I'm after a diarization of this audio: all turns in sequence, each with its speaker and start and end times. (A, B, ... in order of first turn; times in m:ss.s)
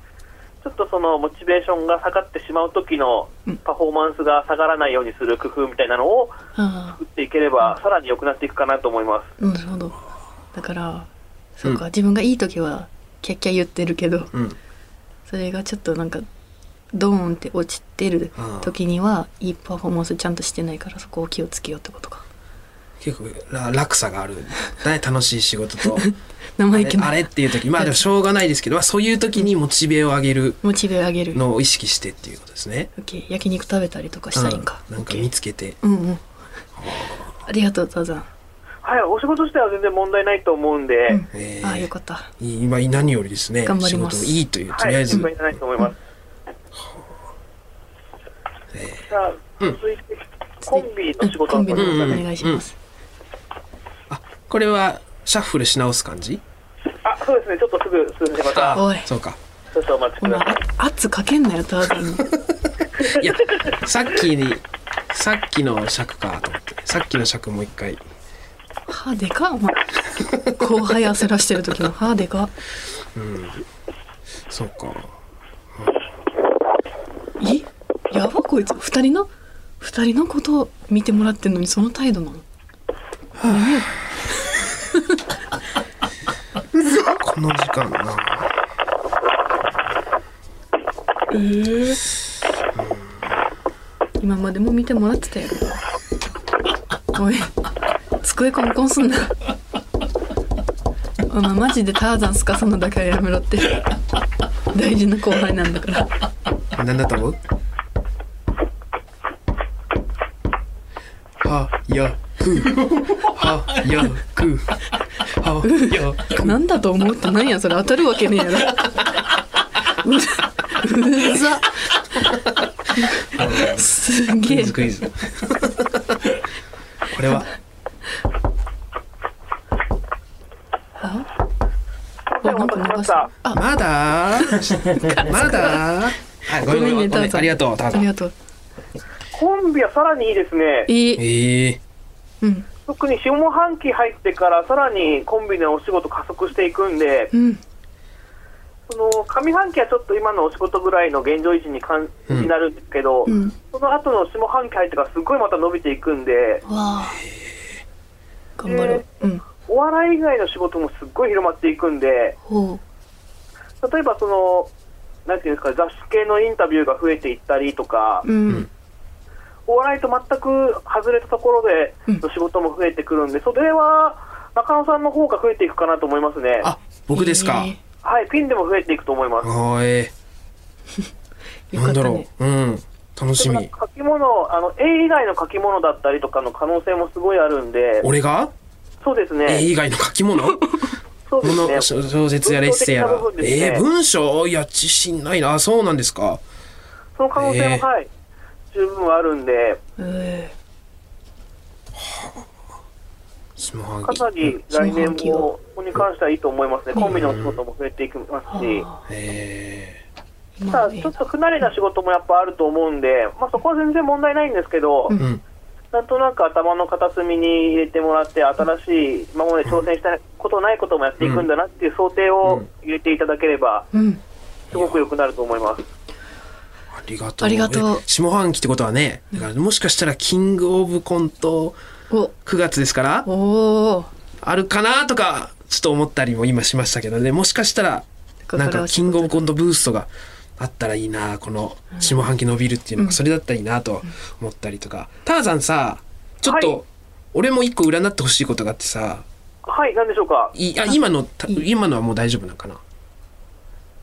0:00.6-0:06.4 A
0:06.6-0:07.0 B
0:07.0-0:09.3 A
0:09.4-0:10.0 B
0:10.5-0:14.3 B
0:14.3-0:14.6 C
0:15.3-0:16.2 B
0:16.9-0:22.2 B
0:18.3-0:18.7 C
0:23.0-0:26.1 C
0:25.9-0:28.0 B
0:26.7-0:30.6 C
0:30.6-0:31.4 B
0:31.3-0:32.9 C
0:33.0-0:35.3 B
0:34.3-0:35.8 C
0:35.8-0:36.2 B
0:36.8-0:37.2 C
0:37.4-0:38.3 B
0:38.8-0:41.2 A
0:41.1-0:42.3 B
0:41.3-0:45.3 C
0:43.6-0:44.4 B
0:44.7-0:46.0 A
0:46.8-0:47.0 C
0:48.7-0:49.1 C
0:49.1-0:52.2 A
0:50.7-0:52.8 B
0:51.7-0:52.6 C
0:54.1-0:56.4 C
0:57.0-0:58.8 A
0:58.5-0:59.4 C
0:58.7-0:59.1 B
0:59.7-1:00.6 A
1:00.2-1:02.3 B
1:03.0-1:08.0 C
1:08.9-1:12.5 B
1:13.1-1:13.6 C
1:14.5-1:15.1 C
1:17.4-1:22.4 B
1:23.4-1:24.0 C
1:23.4-1:25.2 B
1:26.8-1:28.5 C
1:31.3-1:32.0 B
1:32.7-1:33.3 C
1:34.2-1:35.8 B
1:37.1-1:37.5 B
1:38.2-1:39.4 B
1:41.3-1:44.0 B
1:44.7-1:46.1 B
1:46.7-1:47.4 C
1:51.4-1:56.6 C
1:55.6-1:59.1 B
2:00.0-2:02.0 B
2:03.0-2:04.8 B
2:03.3-2:03.9 C
2:04.4-2:06.2 C
2:07.1-2:07.5 C
2:11.0-2:11.3 B
2:12.3-2:13.3 A
2:12.4-2:13.6 B
2:13.5-2:18.0 C
2:14.8-2:15.8 B
2:16.5-2:18.3 B
2:19.3-2:20.9 A
2:20.9-2:21.2 B
2:21.2-2:21.8 C
2:22.4-2:22.7 B
2:22.8-2:27.3 A
2:27.3-2:27.6 B
2:28.9-2:36.6 A
2:33.3-2:33.5 B
2:36.6-2:37.2 B
2:37.2-2:37.8 C
2:38.6-2:39.4 B
2:38.6-2:39.0 A
2:39.6-2:42.4 A
2:42.4-2:42.8 B
2:43.8-2:44.7 A
2:45.2-2:48.2 A
2:48.2-2:48.7 B
2:49.7-2:56.7 A
2:56.6-2:57.7 C
2:57.1-2:57.8 B
2:58.0-2:59.5 A
2:59.4-3:00.1 C
3:01.7-3:02.3 B
3:01.7-3:03.7 C
3:03.4-3:08.1 A
3:08.0-3:08.5 C
3:09.0-3:09.7 A
3:09.4-3:10.8 C
3:11.3-3:11.9 A
3:11.4-3:16.4 C
3:12.4-3:13.8 A
3:17.2-3:18.1 A
3:17.4-3:17.8 C
3:18.7-3:19.8 A
3:20.0-3:20.5 B
3:22.0-3:22.4 C
3:23.6-3:24.5 C
3:24.0-3:28.8 A
3:24.7-3:25.5 B
3:27.1-3:27.6 C
3:28.5-3:29.0 B
3:29.1-3:30.0 C
3:30.6-3:31.1 B
3:30.7-3:35.2 A
3:35.1-3:35.4 C
3:35.9-3:43.9 A
3:41.2-3:41.5 C
3:43.9-3:44.2 B
3:44.7-3:45.8 A
3:44.7-3:45.0 C
3:46.9-3:51.8 C
3:47.4-3:48.0 B
3:52.4-3:53.3 C
3:53.2-3:54.1 B
3:54.4-4:09.2 C
3:58.5-3:59.4 B
4:06.4-4:06.8 A
4:09.6-4:10.5 A
4:10.5-4:12.8 C